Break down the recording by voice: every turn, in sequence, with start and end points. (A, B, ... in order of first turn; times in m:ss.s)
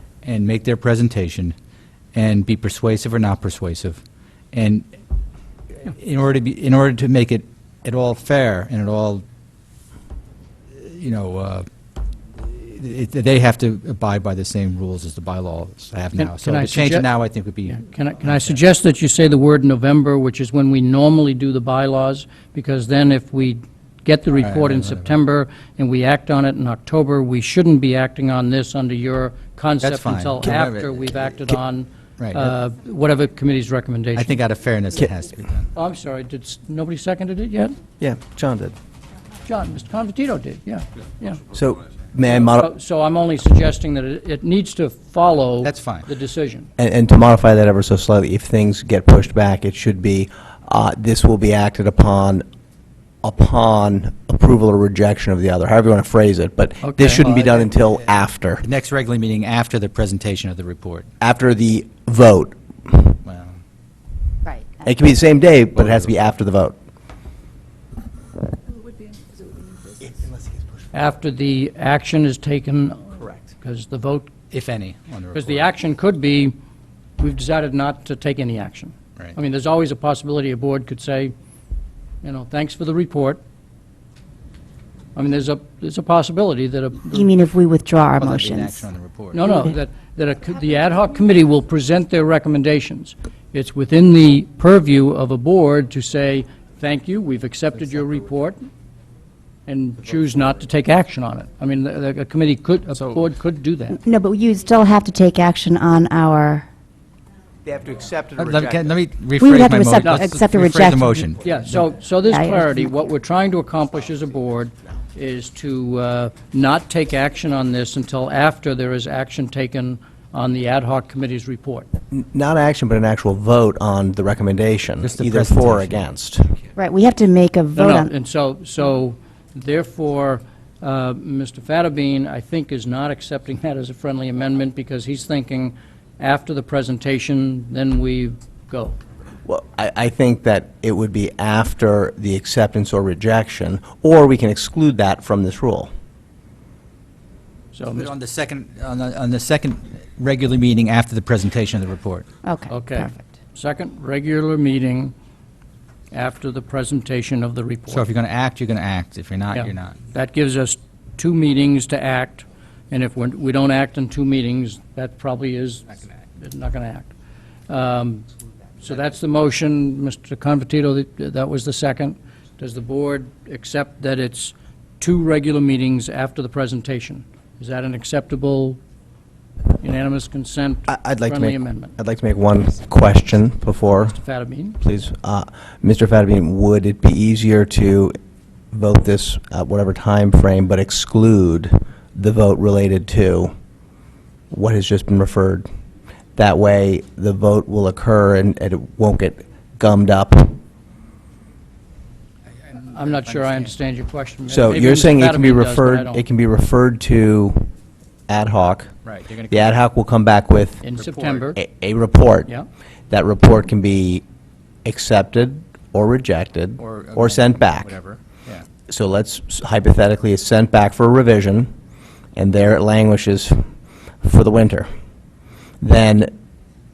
0:00.2-0:01.5 A
0:02.1-0:04.0 A
0:04.5-0:04.9 A
0:05.8-0:09.2 A
0:10.7-0:11.7 A
0:12.4-0:18.6 A
0:16.2-0:17.1 B
0:17.7-0:34.4 B
0:24.4-0:25.1 A
0:29.8-0:31.0 A
0:32.2-0:32.5 A
0:34.1-0:35.7 A
0:35.7-0:37.8 B
0:38.0-0:38.7 C
0:39.4-0:41.4 B
0:41.5-0:42.7 C
0:42.2-0:46.7 B
0:45.6-0:46.1 A
0:46.8-0:52.4 C
0:53.2-0:58.7 C
0:56.8-0:57.6 B
0:58.6-1:01.1 A
1:01.2-1:03.2 C
1:03.2-1:03.6 A
1:04.4-1:04.8 D
1:04.8-1:06.8 C
1:05.8-1:06.1 A
1:10.0-1:10.6 C
1:10.9-1:14.3 B
1:14.5-1:15.7 A
1:15.3-1:16.5 B
1:17.2-1:21.3 B
1:22.2-1:23.4 B
1:25.1-1:27.3 B
1:27.1-1:28.9 D
1:28.2-1:29.5 A
1:29.3-1:38.7 B
1:29.5-1:29.7 D
1:39.6-1:44.0 B
1:43.9-1:46.7 D
1:47.6-1:49.0 C
1:48.4-1:51.4 A
1:49.4-1:51.5 D
1:51.4-2:01.9 B
1:52.3-1:52.9 D
2:02.1-2:06.6 C
2:05.0-2:06.0 A
2:06.7-2:08.1 D
2:07.8-2:19.0 B
2:19.4-2:25.9 C
2:27.7-2:28.1 B
2:27.9-2:32.3 A
2:32.4-2:33.2 D
2:32.7-2:35.1 B
2:36.1-2:38.0 B
2:37.9-2:40.0 A
2:39.5-2:47.1 B
2:47.7-2:48.3 B
2:48.8-2:58.8 B
2:59.8-3:01.9 B
3:00.9-3:04.2 C
3:03.9-3:04.8 B
3:04.8-3:08.2 C
3:08.7-3:13.5 C
3:14.5-3:15.7 C
3:16.4-3:20.6 C
3:22.7-3:23.7 A
3:22.9-3:26.2 B
3:24.5-3:27.7 C
3:28.3-3:28.9 C
3:29.0-3:29.7 A
3:29.5-3:30.8 C
3:30.8-3:31.6 B
3:30.9-3:31.5 A
3:31.6-3:32.5 C
3:33.1-3:34.2 C
3:34.8-3:37.9 C
3:36.8-3:38.7 A
3:38.9-3:41.7 C
3:42.4-3:43.7 C
3:44.2-3:44.9 C
3:45.8-3:46.3 C